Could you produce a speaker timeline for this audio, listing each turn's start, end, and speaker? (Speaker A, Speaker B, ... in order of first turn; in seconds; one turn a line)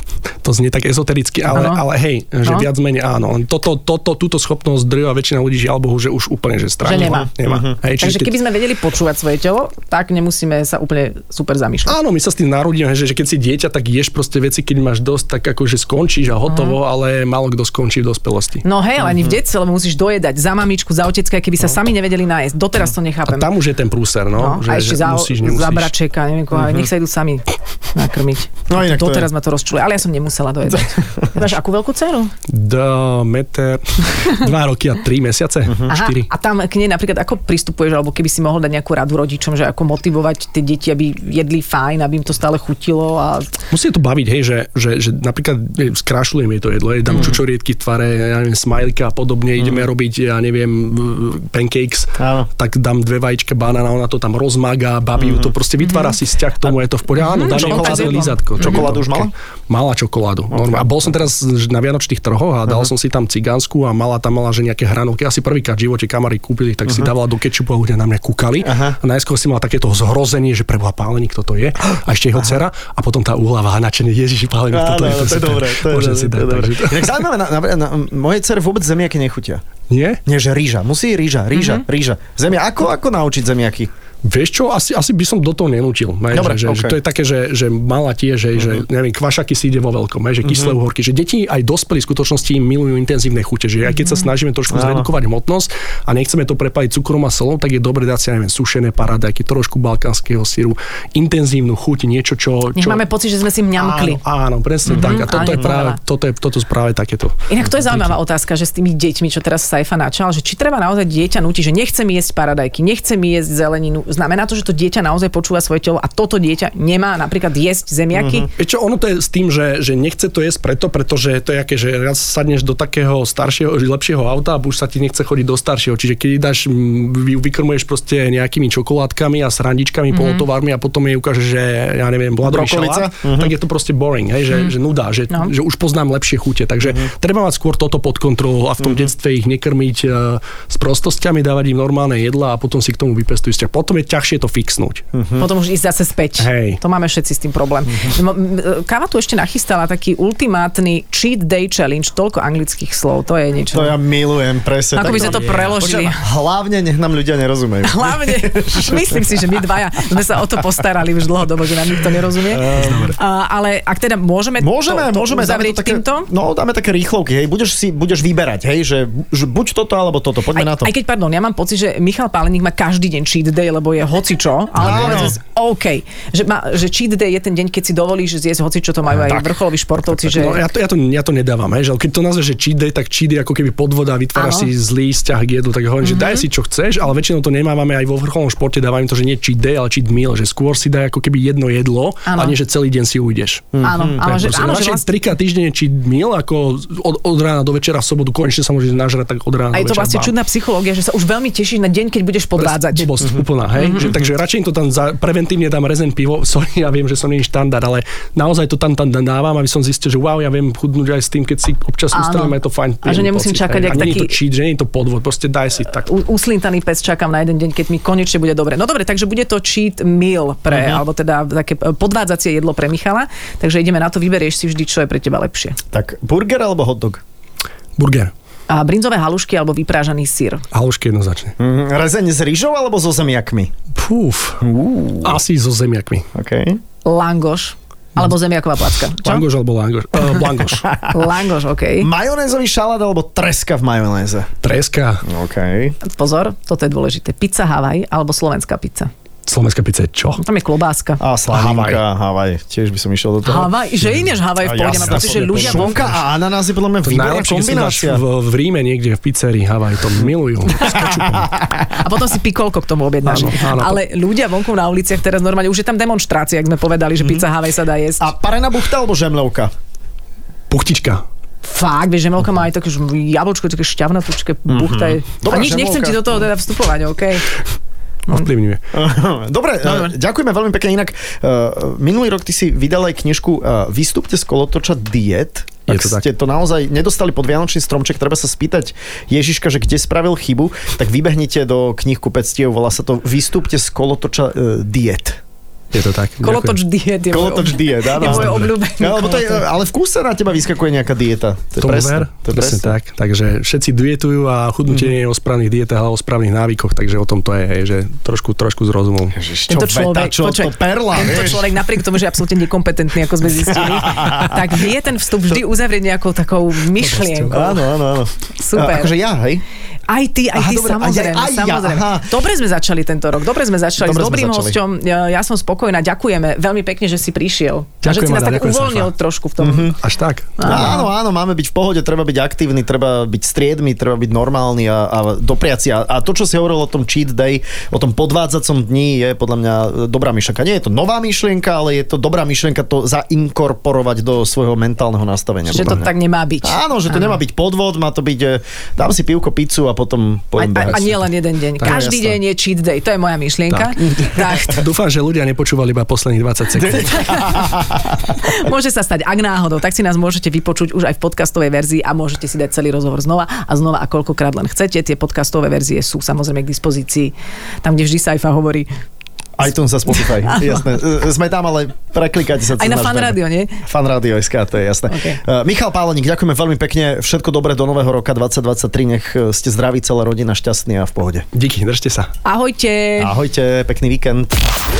Speaker A: 0.4-8.4
Speaker B: 1.5-1.8
Speaker B: 6.8-7.3
Speaker C: 6.9-7.7
Speaker B: 8.0-11.9
Speaker A: 11.8-18.6
Speaker B: 16.5-16.8
Speaker B: 18.6-23.5
Speaker C: 19.0-19.4
Speaker A: 23.3-25.9
Speaker B: 24.3-32.3
Speaker C: 26.5-26.9
Speaker C: 28.7-29.3
Speaker C: 30.7-31.5
Speaker A: 32.5-36.3
Speaker B: 35.9-43.5
Speaker A: 43.7-77.2
Speaker B: 47.1-47.4
Speaker C: 49.6-49.9
Speaker C: 52.2-52.5
Speaker C: 55.2-55.5
Speaker B: 55.8-56.2
Speaker B: 57.2-58.9
Speaker C: 57.4-59.3
Speaker C: 60.6-61.1
Speaker C: 68.6-69.0
Speaker C: 74.7-79.6
Speaker A: 79.9-80.2
Speaker C: 80.2-83.9
Speaker B: 81.5-81.8
Speaker A: 84.2-103.0
Speaker C: 86.3-87.0
Speaker C: 90.4-90.7
Speaker B: 94.0-94.2
Speaker C: 94.7-95.1
Speaker B: 102.7-104.2
Speaker A: 103.8-108.1
Speaker B: 104.8-106.0
Speaker C: 104.9-105.2
Speaker B: 107.5-118.5
Speaker C: 118.1-118.5
Speaker A: 118.6-145.0
Speaker B: 130.1-130.4
Speaker C: 132.4-133.5
Speaker C: 136.8-137.1
Speaker C: 138.8-139.1
Speaker C: 145.1-145.4
Speaker B: 145.4-153.9
Speaker A: 146.4-146.8
Speaker C: 153.7-159.4
Speaker B: 154.9-156.2
Speaker A: 155.0-156.1
Speaker B: 157.8-166.3
Speaker C: 162.5-163.1
Speaker A: 162.6-163.2
Speaker C: 164.6-170.9
Speaker B: 170.5-180.7
Speaker C: 174.8-175.4
Speaker A: 174.9-175.2
Speaker A: 180.3-200.3
Speaker B: 184.3-184.7
Speaker B: 186.0-186.4
Speaker B: 192.2-192.6
Speaker C: 193.7-194.2
Speaker B: 193.8-195.1
Speaker B: 199.7-203.1
Speaker A: 202.6-216.1
Speaker B: 203.7-204.1
Speaker B: 212.1-214.3
Speaker B: 216.0-225.8
Speaker C: 220.7-221.0
Speaker C: 225.9-227.2
Speaker A: 228.0-228.3
Speaker B: 228.7-230.7
Speaker A: 230.7-231.5
Speaker C: 231.6-233.7
Speaker A: 233.9-234.6
Speaker C: 234.6-235.4
Speaker A: 235.2-236.3
Speaker C: 236.3-236.8
Speaker B: 237.0-239.4
Speaker A: 239.2-240.9
Speaker C: 240.8-241.2
Speaker B: 241.1-242.1
Speaker C: 242.0-244.5
Speaker A: 244.6-245.2
Speaker C: 245.2-246.0
Speaker B: 246.0-249.1
Speaker A: 249.4-250.4
Speaker B: 250.4-251.2
Speaker C: 251.2-253.7
Speaker A: 251.5-252.0
Speaker B: 253.4-256.0
Speaker A: 254.0-256.2
Speaker C: 254.6-258.2
Speaker A: 257.0-261.5
Speaker C: 260.8-261.9
Speaker B: 261.9-268.3
Speaker A: 263.2-264.0
Speaker C: 267.2-267.4
Speaker C: 268.2-269.7
Speaker A: 270.7-271.2
Speaker B: 271.6-277.5
Speaker C: 274.7-276.5
Speaker A: 278.3-278.8
Speaker C: 278.9-295.4
Speaker B: 279.9-280.1
Speaker A: 285.9-286.2
Speaker A: 295.9-296.8
Speaker B: 296.4-299.6
Speaker C: 297.3-302.9
Speaker A: 298.2-298.7
Speaker A: 301.8-309.4
Speaker C: 309.3-311.8
Speaker B: 309.7-317.8
Speaker C: 313.6-314.8
Speaker A: 317.0-317.8
Speaker C: 317.5-319.6
Speaker B: 318.6-319.1
Speaker B: 320.1-329.9
Speaker C: 320.5-322.3
Speaker C: 324.0-324.8
Speaker A: 328.0-329.1
Speaker C: 329.6-330.0
Speaker A: 329.9-330.9
Speaker B: 330.6-331.1
Speaker C: 330.6-346.1
Speaker B: 345.7-347.4
Speaker C: 346.6-351.1
Speaker B: 350.6-354.8
Speaker A: 350.8-351.1
Speaker A: 351.8-352.1
Speaker C: 351.8-352.4
Speaker A: 354.7-357.4
Speaker C: 356.8-358.4
Speaker B: 356.9-368.9
Speaker C: 369.6-381.5
Speaker B: 370.2-370.8
Speaker B: 372.8-373.8
Speaker B: 375.1-375.4
Speaker A: 381.5-382.3
Speaker B: 382.4-383.3
Speaker C: 383.2-384.6